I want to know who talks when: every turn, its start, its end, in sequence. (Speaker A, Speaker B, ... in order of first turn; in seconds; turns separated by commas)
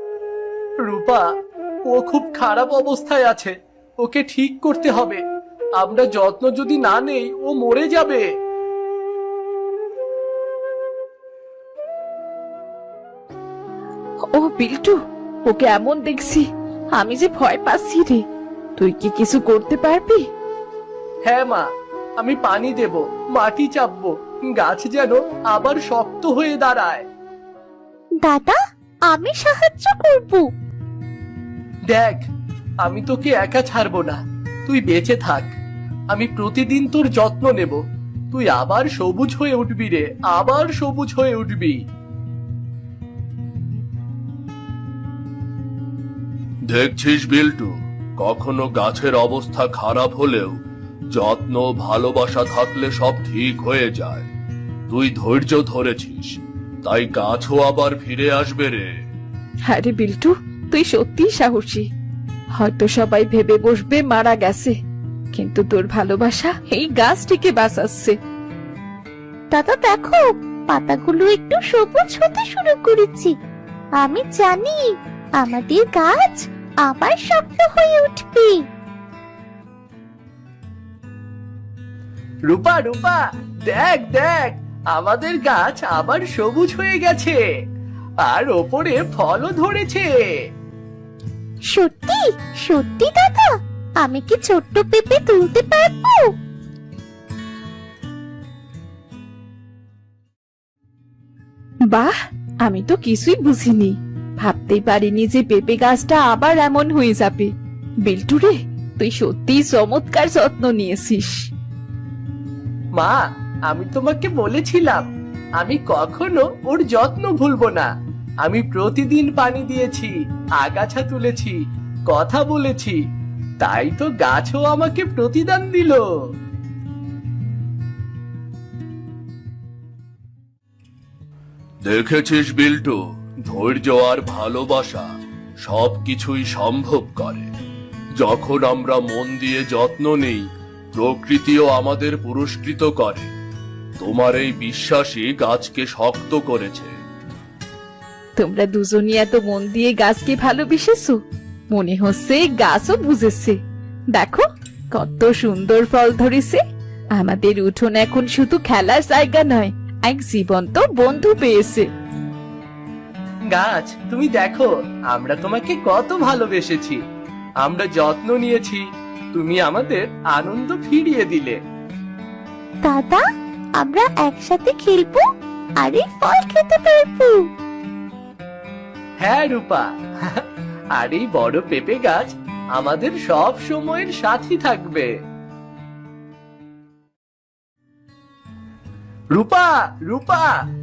Speaker A: 0.8-1.2, Speaker A: 1.9-5.2, Speaker A: 5.8-8.2, Speaker B: 14.3-18.2, Speaker B: 18.8-20.3, Speaker A: 21.2-21.7, Speaker A: 22.2-27.1, Speaker C: 28.2-28.6, Speaker C: 29.1-30.4, Speaker A: 31.9-32.2, Speaker A: 32.8-35.5, Speaker A: 36.1-37.8, Speaker A: 38.3-41.8, Speaker D: 46.7-50.5, Speaker D: 51.1-54.3, Speaker D: 54.9-58.9, Speaker B: 59.7-61.9, Speaker B: 62.5-64.8, Speaker B: 65.3-68.2, Speaker C: 69.5-73.3, Speaker C: 74.0-74.8, Speaker C: 75.4-78.5, Speaker A: 82.5-87.4, Speaker A: 88.2-90.3, Speaker C: 91.7-96.3, Speaker B: 101.9-107.5, Speaker B: 108.0-111.5, Speaker A: 113.0-115.0, Speaker A: 115.6-117.9, Speaker A: 118.4-123.0, Speaker A: 123.6-126.0, Speaker D: 131.8-135.1, Speaker D: 135.6-137.5, Speaker D: 138.2-143.3, Speaker D: 144.0-146.9, Speaker B: 148.3-151.2, Speaker B: 151.7-153.6, Speaker B: 154.1-156.6, Speaker B: 157.2-161.9, Speaker A: 163.5-167.0, Speaker A: 167.6-171.6, Speaker C: 172.8-173.2, Speaker C: 173.8-175.2, Speaker C: 175.8-177.4, Speaker A: 179.2-185.1, Speaker A: 189.3-190.6